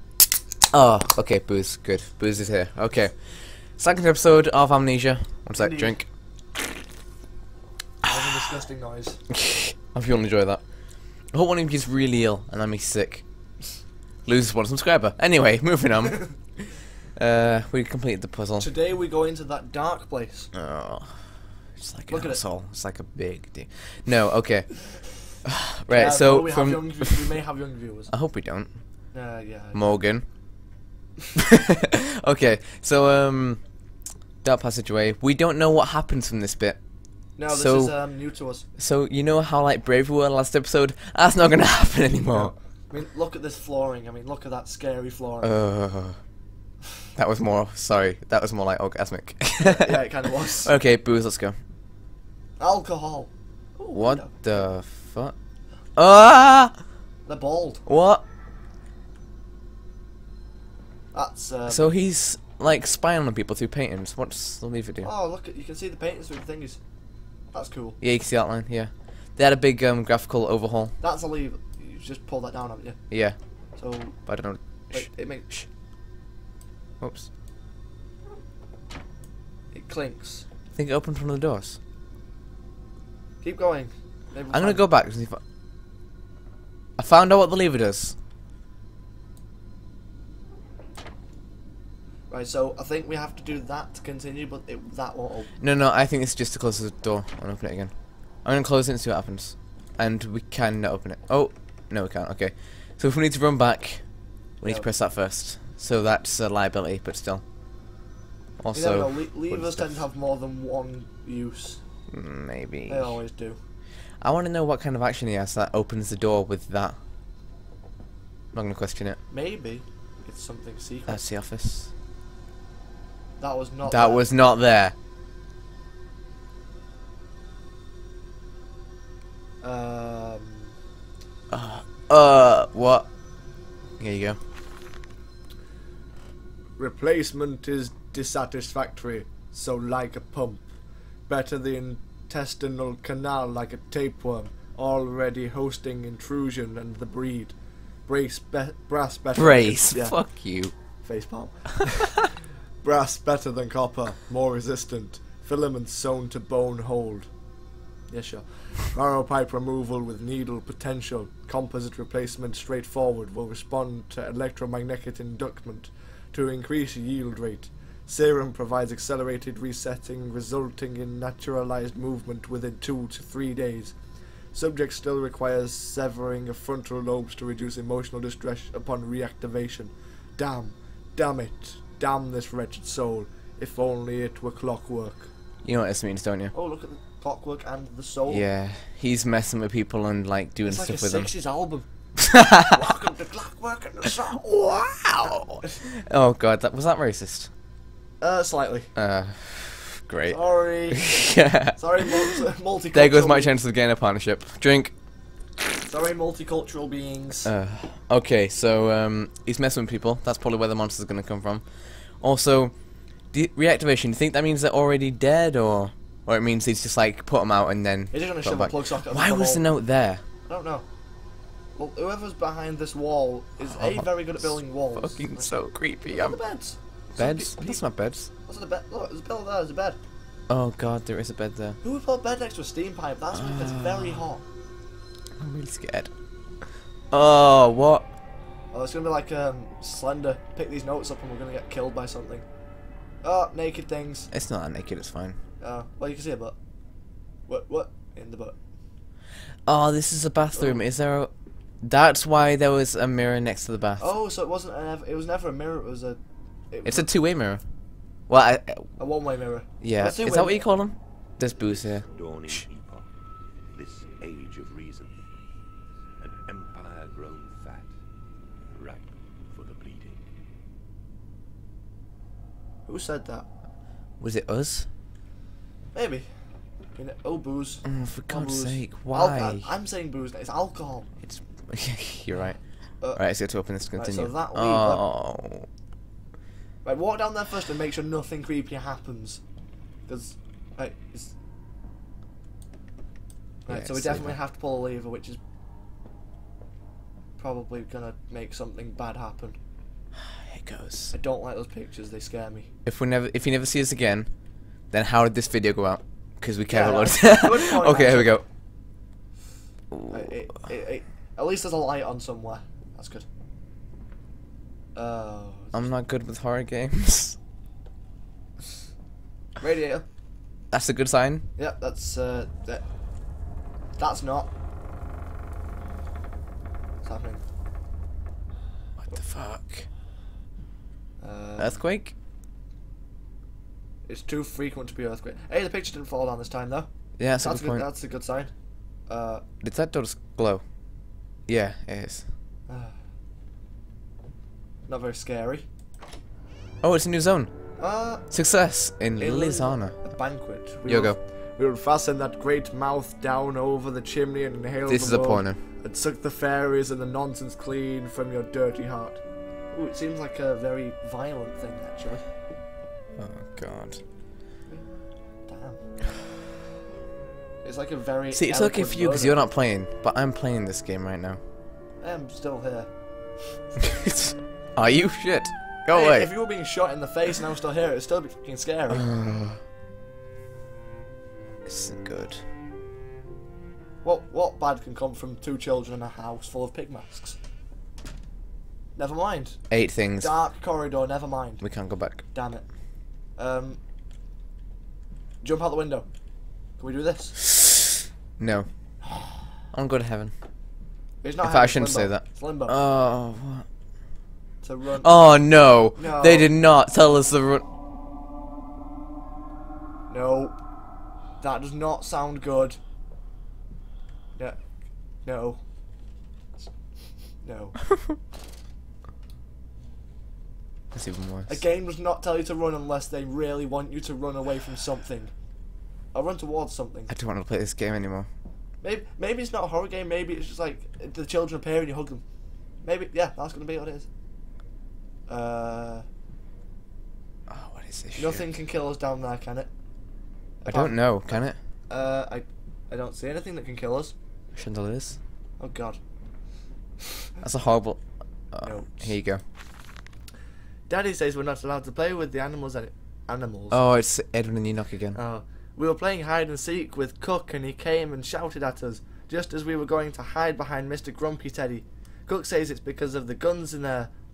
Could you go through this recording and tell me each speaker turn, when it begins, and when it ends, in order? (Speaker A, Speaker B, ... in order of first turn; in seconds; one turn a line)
Speaker A: 0.7-6.1
Speaker B: 5.5-6.0
Speaker B: 8.0-9.2
Speaker A: 9.3-10.6
Speaker A: 11.2-13.2
Speaker A: 14.2-18.7
Speaker B: 18.6-20.5
Speaker A: 20.5-27.3
Speaker B: 22.1-22.4
Speaker B: 25.9-28.1
Speaker A: 28.1-29.1
Speaker B: 29.1-29.9
Speaker A: 29.7-30.2
Speaker A: 31.5-33.6
Speaker A: 34.4-36.8
Speaker B: 37.4-38.6
Speaker A: 37.4-38.0
Speaker A: 38.8-42.5
Speaker B: 42.3-45.6
Speaker A: 45.4-46.2
Speaker A: 47.1-50.0
Speaker B: 49.6-50.7
Speaker A: 50.6-51.6
Speaker B: 52.6-54.3
Speaker A: 53.9-55.3
Speaker A: 56.0-56.8
Speaker B: 57.2-57.8
Speaker A: 57.9-58.2
Speaker B: 61.1-61.9
Speaker A: 61.7-65.1
Speaker B: 65.0-66.8
Speaker B: 67.5-68.0
Speaker A: 68.0-70.9
Speaker B: 71.0-73.0
Speaker A: 73.1-73.3
Speaker B: 73.8-75.5
Speaker A: 74.2-75.7
Speaker A: 77.0-77.3
Speaker B: 79.7-80.5
Speaker A: 80.7-81.8
Speaker B: 83.4-84.8
Speaker A: 84.5-85.4
Speaker A: 87.0-88.2
Speaker B: 92.3-95.5
Speaker A: 95.6-107.4
Speaker B: 104.6-104.9
Speaker A: 108.6-110.0
Speaker B: 108.7-111.8
Speaker A: 112.1-113.2
Speaker B: 112.9-113.6
Speaker A: 114.2-117.0
Speaker A: 118.5-119.2
Speaker B: 119.3-121.2
Speaker A: 121.1-121.9
Speaker B: 123.4-124.3
Speaker A: 123.8-124.9
Speaker B: 129.6-130.7
Speaker A: 131.5-133.1
Speaker A: 134.0-134.4
Speaker B: 136.8-140.7
Speaker B: 141.3-150.3
Speaker A: 149.3-150.7
Speaker B: 151.0-152.2
Speaker B: 152.8-157.3
Speaker B: 158.1-173.9
Speaker B: 174.5-185.3
Speaker A: 185.6-186.5
Speaker B: 186.5-188.4
Speaker A: 188.3-191.3
Speaker B: 190.6-191.8
Speaker A: 192.3-192.8
Speaker B: 192.6-195.8
Speaker A: 195.2-197.5
Speaker B: 198.2-198.9
Speaker A: 198.9-202.3
Speaker B: 200.3-203.5
Speaker A: 202.9-204.9
Speaker B: 205.8-207.5
Speaker A: 207.4-220.2
Speaker B: 218.1-219.7
Speaker B: 220.4-220.8
Speaker B: 221.7-227.8
Speaker A: 223.7-226.4
Speaker A: 227.2-228.3
Speaker B: 228.3-230.0
Speaker A: 230.5-231.8
Speaker B: 231.8-234.4
Speaker A: 233.3-234.2
Speaker A: 235.4-236.1
Speaker A: 237.1-238.1
Speaker B: 238.7-242.5
Speaker B: 243.2-244.3
Speaker A: 244.3-245.4
Speaker B: 245.6-246.6
Speaker B: 247.5-248.6
Speaker A: 249.7-251.3
Speaker B: 250.5-250.8
Speaker A: 251.8-254.1
Speaker B: 254.0-256.2
Speaker B: 256.7-257.1
Speaker A: 256.8-257.6
Speaker A: 258.3-258.9
Speaker B: 259.0-260.7
Speaker A: 259.8-262.6
Speaker C: 262.1-263.1
Speaker C: 263.7-265.1
Speaker C: 266.2-267.9
Speaker C: 268.8-270.2
Speaker B: 272.9-273.4
Speaker A: 274.2-274.9
Speaker B: 275.9-276.3
Speaker B: 276.9-281.1
Speaker A: 277.8-279.7
Speaker A: 281.2-285.7
Speaker B: 283.9-285.0
Speaker B: 286.8-289.4
Speaker B: 290.1-291.4
Speaker B: 293.6-295.4
Speaker A: 293.7-294.3
Speaker B: 297.4-299.6
Speaker A: 300.3-301.1
Speaker B: 301.1-302.7
Speaker A: 302.9-304.3
Speaker A: 304.9-308.4
Speaker B: 306.7-308.4
Speaker A: 309.9-310.2
Speaker B: 310.1-313.2
Speaker B: 314.9-315.9
Speaker A: 315.7-317.4
Speaker B: 319.6-320.0
Speaker A: 320.7-321.5
Speaker B: 321.6-322.9
Speaker B: 324.0-324.5
Speaker B: 327.0-327.4
Speaker A: 329.0-329.9
Speaker B: 331.2-331.8
Speaker A: 331.6-332.1
Speaker B: 334.1-338.5
Speaker A: 337.2-337.8
Speaker B: 339.1-339.4
Speaker A: 339.6-340.6
Speaker A: 341.5-342.3
Speaker B: 342.7-343.0
Speaker B: 344.9-345.6
Speaker A: 346.8-347.7
Speaker B: 347.8-348.3
Speaker A: 348.3-350.1
Speaker B: 349.2-359.2
Speaker A: 350.9-351.2
Speaker A: 354.9-355.6
Speaker B: 359.7-362.2
Speaker A: 363.2-364.0
Speaker B: 365.5-365.8
Speaker B: 367.6-369.4
Speaker A: 368.3-371.4
Speaker B: 372.0-372.9
Speaker A: 374.0-376.3
Speaker B: 375.9-379.1
Speaker A: 378.9-379.6
Speaker A: 381.6-382.4
Speaker B: 384.0-387.4
Speaker B: 388.9-389.6
Speaker A: 389.7-390.3
Speaker B: 390.2-392.8
Speaker A: 391.6-392.2
Speaker B: 393.4-393.8
Speaker B: 395.4-396.1
Speaker B: 396.8-397.4
Speaker A: 398.4-398.9
Speaker A: 399.7-400.3
Speaker B: 401.2-402.7
Speaker A: 401.4-403.6
Speaker B: 404.6-405.2
Speaker A: 405.0-407.6
Speaker B: 405.9-406.5
Speaker B: 410.1-410.6
Speaker B: 411.4-412.8
Speaker B: 415.2-415.6
Speaker B: 417.4-417.8
Speaker A: 420.9-421.6
Speaker B: 421.4-425.3
Speaker B: 426.1-427.1
Speaker A: 427.1-428.3
Speaker B: 428.8-432.2
Speaker B: 432.8-434.1
Speaker B: 435.3-436.0
Speaker A: 437.5-438.4
Speaker B: 438.2-439.7
Speaker B: 440.6-444.1
Speaker A: 440.6-441.6
Speaker A: 444.6-445.2
Speaker B: 445.6-446.0
Speaker A: 447.4-448.0
Speaker A: 448.5-449.4
Speaker B: 448.6-449.1
Speaker B: 450.9-453.8
Speaker A: 453.7-455.2
Speaker B: 455.1-464.1